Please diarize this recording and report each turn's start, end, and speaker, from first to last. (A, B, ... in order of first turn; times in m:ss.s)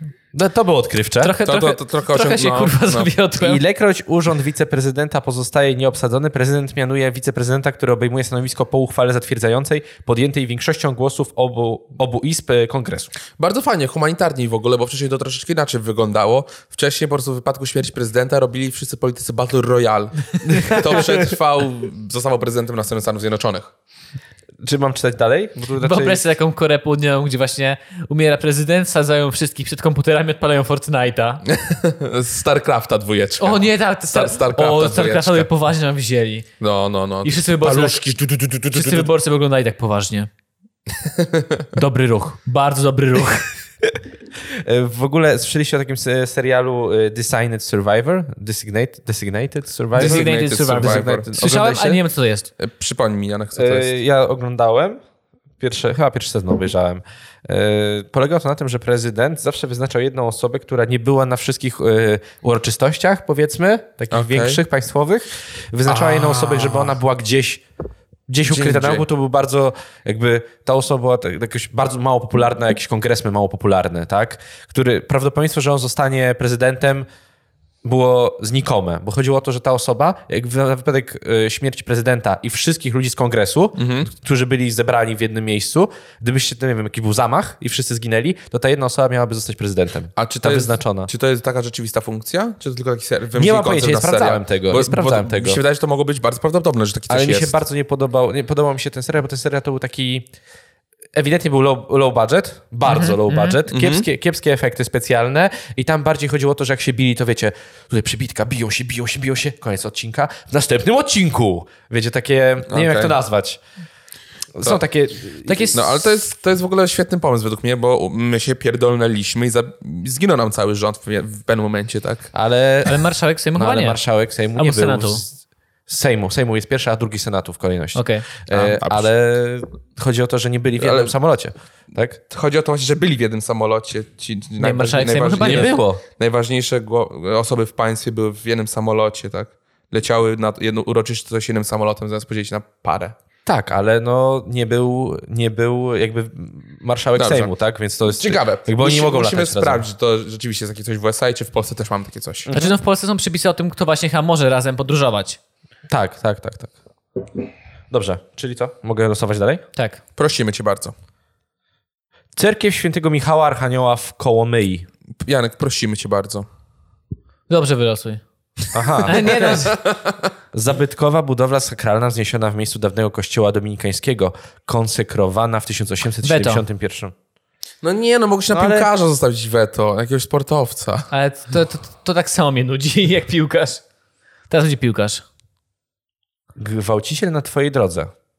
0:00.3-0:01.4 A
0:01.2-0:03.6 B
0:01.4-0:03.1 C
0:03.4-0:13.1 A
0:13.4-0:23.7 C
0:20.5-0:21.3 A
0:24.6-0:26.2 A
0:25.8-0:31.4 B
0:31.5-0:35.5 C
0:33.4-0:36.5 B
0:36.6-0:39.1 C
0:37.2-0:38.1 B
0:38.7-0:40.3 B
0:41.1-0:41.7 C
0:41.7-0:43.5 B
0:44.6-0:52.0 A
0:49.9-0:52.5 B
0:50.0-0:51.3 C
0:52.6-0:53.9 C
0:53.6-0:55.0 A
0:55.6-1:07.6 A
1:04.1-1:04.6 C
1:05.9-1:07.0 C
1:08.3-1:17.1 A
1:08.4-1:09.1 C
1:17.8-1:31.1 A
1:23.8-1:24.1 C
1:30.2-1:37.6 C
1:33.4-1:35.6 A
1:37.1-1:40.3 A
1:41.1-1:53.6 A
1:42.9-1:43.6 B
1:43.7-1:44.0 C
1:52.7-1:53.2 C
1:54.6-1:55.9 A
1:55.5-1:55.8 B
1:55.7-2:02.3 C
2:02.3-2:03.0 A
2:02.9-2:04.0 B
2:03.6-2:12.2 A
2:04.6-2:05.2 B
2:08.0-2:08.3 B
2:08.5-2:09.1 C
2:10.8-2:11.1 C
2:12.3-2:23.2 C
2:14.6-2:15.8 B
2:15.4-2:16.0 A
2:23.5-2:29.8 A
2:27.2-2:27.5 C
2:28.1-2:32.5 C
2:32.5-2:32.7 A
2:32.5-2:35.4 B
2:35.9-2:36.7 A
2:37.9-2:39.6 A
2:40.2-2:40.9 C
2:42.4-2:44.9 A
2:45.2-2:46.5 C
2:47.5-2:48.2 B
2:48.7-2:49.6 A
2:49.0-2:49.8 B
2:49.0-2:50.3 C
2:50.5-2:57.1 A
2:56.2-2:56.6 B
2:57.8-3:01.1 C
2:58.5-2:58.9 A
3:01.1-3:03.8 B
3:04.5-3:05.2 B
3:06.6-3:08.1 A